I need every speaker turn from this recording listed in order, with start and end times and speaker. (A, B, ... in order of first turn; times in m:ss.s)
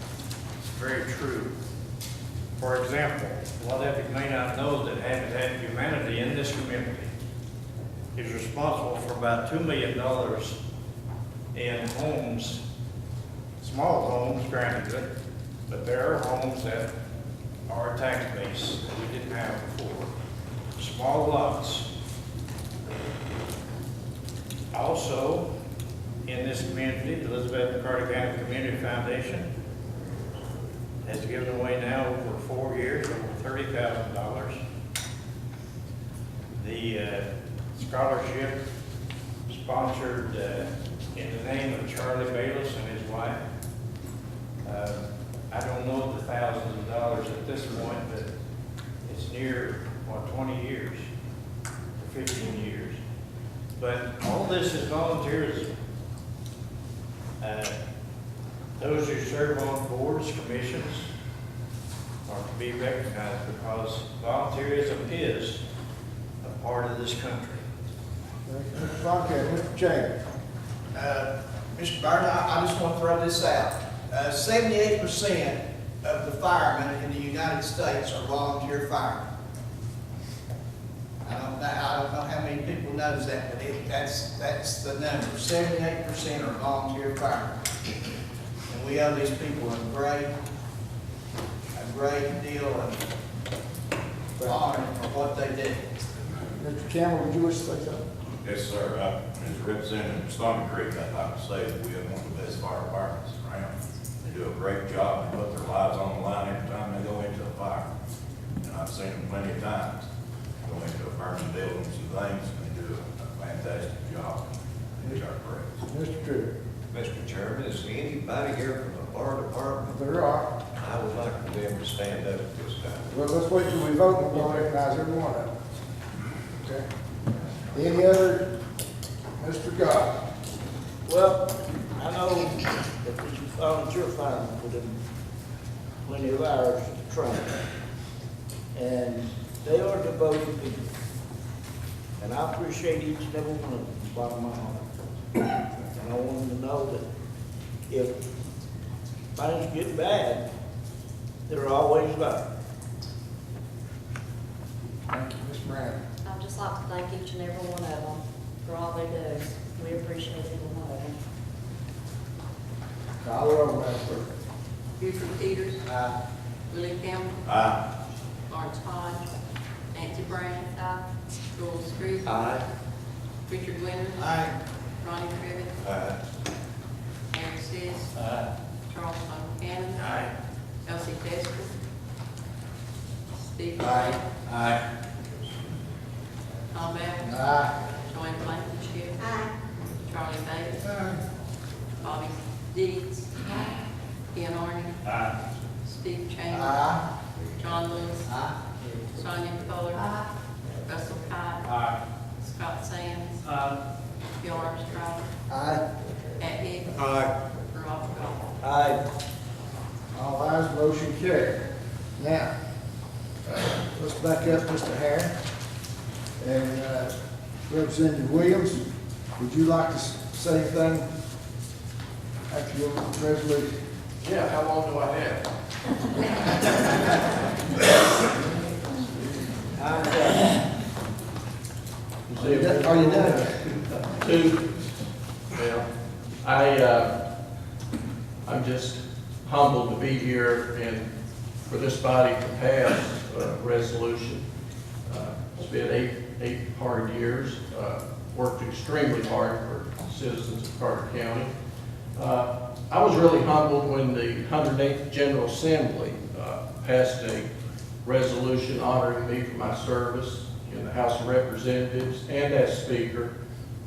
0:00.7-0:01.5 A
0:02.6-0:07.1 A
0:08.2-0:10.6 A
0:11.5-0:12.6 A
0:13.6-0:15.1 A
0:15.7-0:16.9 A
0:17.7-0:20.1 A
0:20.8-0:21.9 A
0:24.7-0:25.5 A
0:26.2-0:29.5 A
0:31.0-0:34.6 A
0:36.6-0:38.6 A
0:39.5-0:43.4 A
0:44.6-0:48.3 A
0:49.0-0:51.1 A
0:52.0-0:53.0 A
0:53.8-0:55.7 A
0:57.4-0:57.7 A
0:58.8-1:01.1 A
1:02.2-1:05.6 A
1:06.4-1:07.6 A
1:08.5-1:10.1 B
1:10.9-1:19.3 C
1:21.2-1:27.6 C
1:28.7-1:30.3 C
1:31.7-1:33.0 C
1:34.4-1:34.6 B
1:34.4-1:35.8 C
1:36.5-1:38.0 B
1:38.4-1:43.7 D
1:44.2-1:47.8 D
1:48.6-1:49.9 D
1:50.7-1:54.4 D
1:55.2-1:55.6 D
1:55.9-1:56.5 B
1:56.9-2:00.0 E
1:59.9-2:00.5 B
2:00.8-2:03.0 E
2:03.1-2:05.5 B
2:06.6-2:06.8 B
2:07.7-2:08.5 B
2:09.4-2:10.1 B
2:11.0-2:14.9 F
2:16.0-2:17.5 F
2:18.7-2:20.8 F
2:22.2-2:24.8 F
2:25.8-2:27.0 F
2:27.9-2:28.1 F
2:29.3-2:30.4 F
2:31.5-2:32.4 F
2:35.1-2:36.0 B
2:36.2-2:41.2 G
2:43.2-2:44.2 B
2:45.0-2:45.8 H
2:46.7-2:47.4 H
2:48.5-2:49.3 H
2:49.9-2:50.9 H
2:51.5-2:52.6 H
2:52.3-2:52.6 E
2:53.5-2:54.3 H
2:54.2-2:54.5 C
2:55.0-2:55.7 H
2:55.8-2:56.1 E
2:57.3-2:58.1 H
2:58.9-3:00.2 H
3:00.8-3:01.8 H
3:03.4-3:04.3 H
3:04.5-3:04.7 C
3:06.7-3:09.2 H
3:10.0-3:10.8 H
3:12.0-3:13.4 H
3:14.3-3:15.0 H
3:15.8-3:17.0 H
3:16.5-3:17.0 C
3:17.6-3:18.4 H
3:18.3-3:18.6 C
3:19.1-3:20.2 H
3:20.8-3:21.6 H
3:22.4-3:23.4 H
3:24.4-3:25.3 H
3:25.5-3:25.8 B
3:26.4-3:27.0 H
3:27.7-3:28.5 H
3:28.6-3:29.0 F
3:30.1-3:31.6 B
3:32.2-3:32.5 B
3:33.4-3:35.3 B
3:36.4-3:37.1 B
3:37.7-3:38.8 B
3:39.4-3:41.0 B
3:42.5-3:43.7 B
3:44.2-3:45.4 I
3:49.8-3:50.5 F
3:52.3-3:54.9 I
3:52.4-3:53.5 B
3:55.5-3:55.8 I
3:56.4-3:57.1 I
3:58.4-4:01.1 I
4:01.6-4:04.4 I
4:05.1-4:11.5 I
4:12.2-4:17.5 I
4:18.0-4:23.3 I